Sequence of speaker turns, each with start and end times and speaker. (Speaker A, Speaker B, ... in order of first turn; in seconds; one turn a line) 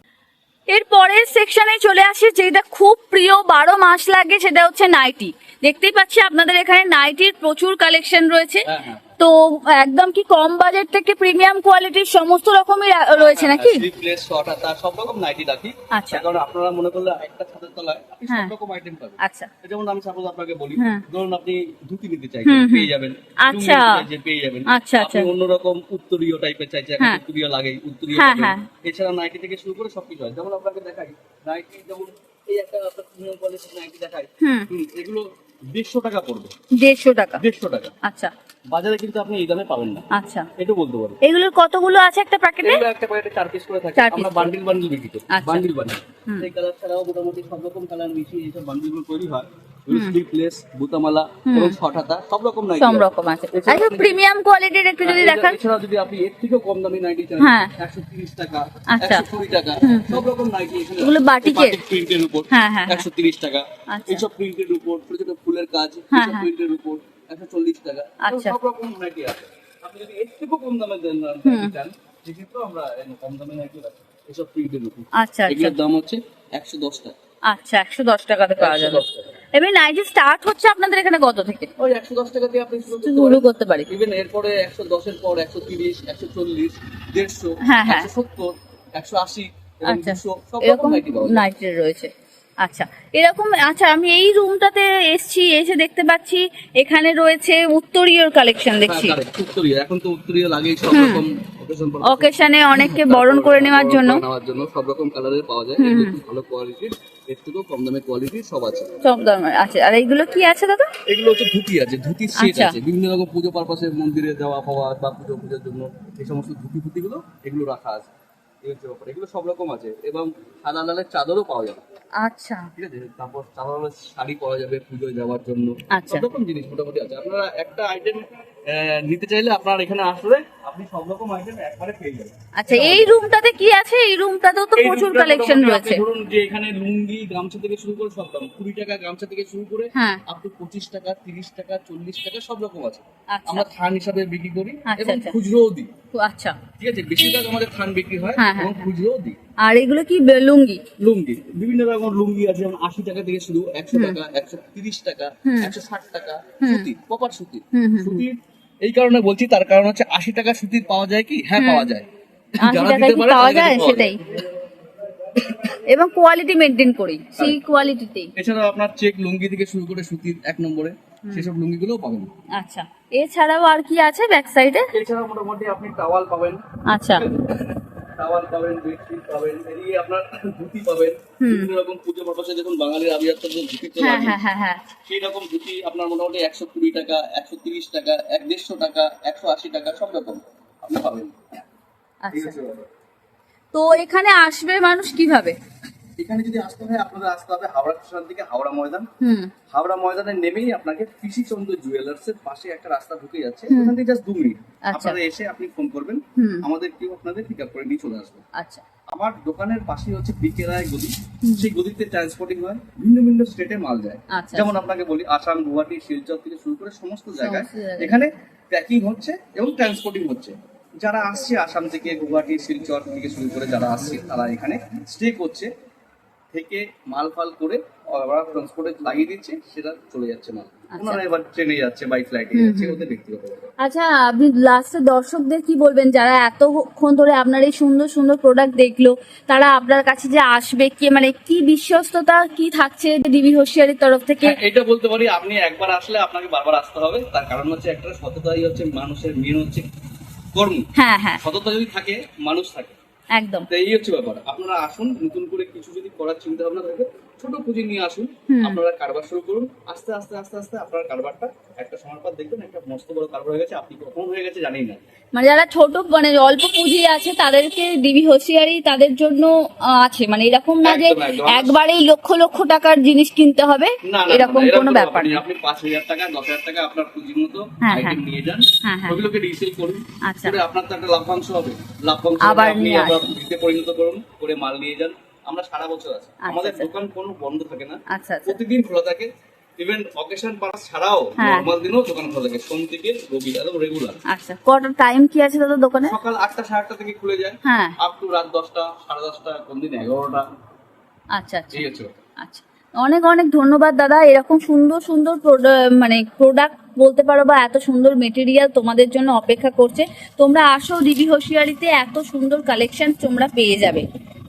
Speaker A: 0.7-8.7
Speaker B: 8.7-9.0
Speaker A: 9.2-13.8
Speaker B: 13.1-36.5
Speaker A: 15.9-16.2
Speaker A: 19.2-19.5
Speaker A: 20.8-21.0
Speaker A: 22.4-22.9
Speaker A: 23.4-24.0
Speaker A: 24.7-25.3
Speaker A: 28.1-28.6
Speaker A: 34.4-34.7
Speaker A: 36.8-37.4
Speaker B: 37.4-37.9
Speaker A: 38.0-38.3
Speaker B: 38.7-40.0
Speaker A: 40.1-40.5
Speaker B: 40.6-41.2
Speaker A: 41.2-42.8
Speaker B: 42.6-54.2
Speaker A: 44.0-44.5
Speaker A: 45.3-45.7
Speaker A: 49.9-50.2
Speaker A: 51.5-51.8
Speaker A: 52.8-55.6
Speaker B: 55.0-77.1
Speaker A: 57.4-57.7
Speaker A: 58.9-59.3
Speaker A: 59.8-60.2
Speaker A: 61.0-61.8
Speaker A: 62.5-63.0
Speaker A: 63.9-64.2
Speaker A: 66.1-66.5
Speaker A: 68.2-68.6
Speaker A: 71.4-71.7
Speaker A: 75.2-75.8
Speaker A: 77.5-81.7
Speaker B: 78.6-79.3
Speaker B: 81.8-91.5
Speaker A: 83.0-83.9
Speaker A: 87.7-88.1
Speaker A: 89.8-99.2
Speaker B: 98.8-108.9
Speaker A: 100.9-101.2
Speaker A: 102.0-104.2
Speaker A: 105.8-106.2
Speaker A: 109.0-110.9
Speaker B: 111.1-118.1
Speaker A: 112.4-112.8
Speaker B: 118.6-121.8
Speaker A: 122.2-122.7
Speaker B: 122.8-133.2
Speaker A: 125.9-126.2
Speaker A: 132.6-136.0
Speaker B: 134.8-145.9
Speaker A: 139.9-140.2
Speaker A: 143.3-143.7
Speaker A: 144.9-145.3
Speaker A: 146.1-146.6
Speaker B: 146.8-149.4
Speaker A: 148.4-148.8
Speaker A: 149.6-150.8
Speaker B: 151.0-162.1
Speaker A: 153.9-154.2
Speaker A: 155.4-155.7
Speaker A: 156.6-156.9
Speaker A: 157.7-158.2
Speaker A: 161.6-161.9
Speaker B: 162.6-164.3
Speaker A: 162.6-164.2
Speaker A: 165.9-168.3
Speaker B: 167.3-167.6
Speaker B: 168.3-172.3
Speaker A: 172.6-174.9
Speaker B: 174.9-184.4
Speaker A: 176.9-177.2
Speaker A: 181.4-181.7
Speaker A: 184.0-184.8
Speaker B: 185.1-191.6
Speaker A: 192.2-192.5
Speaker B: 192.3-192.9
Speaker A: 193.7-195.6
Speaker B: 196.2-199.1
Speaker A: 199.2-199.5
Speaker B: 199.7-208.4
Speaker A: 204.9-205.2
Speaker A: 206.4-206.7
Speaker A: 208.6-208.8
Speaker B: 209.1-225.7
Speaker A: 211.4-211.7
Speaker A: 214.3-214.7
Speaker A: 217.4-218.2
Speaker B: 226.5-233.7
Speaker A: 230.9-231.2
Speaker A: 232.5-233.0
Speaker A: 233.8-244.6
Speaker B: 244.4-249.8
Speaker B: 250.5-250.9
Speaker A: 250.9-251.4
Speaker B: 251.4-253.0
Speaker A: 253.3-253.7
Speaker B: 253.7-265.0
Speaker A: 258.5-258.8
Speaker A: 265.3-275.4
Speaker B: 270.8-271.8
Speaker B: 274.0-294.2
Speaker A: 277.8-278.2
Speaker A: 278.8-279.2
Speaker A: 280.2-280.6
Speaker A: 282.4-283.3
Speaker A: 286.4-286.9
Speaker A: 288.1-288.6
Speaker A: 291.4-291.7
Speaker A: 294.3-296.2
Speaker B: 296.0-300.5
Speaker A: 297.6-297.9
Speaker A: 301.3-301.9
Speaker B: 301.7-302.2
Speaker A: 302.4-314.0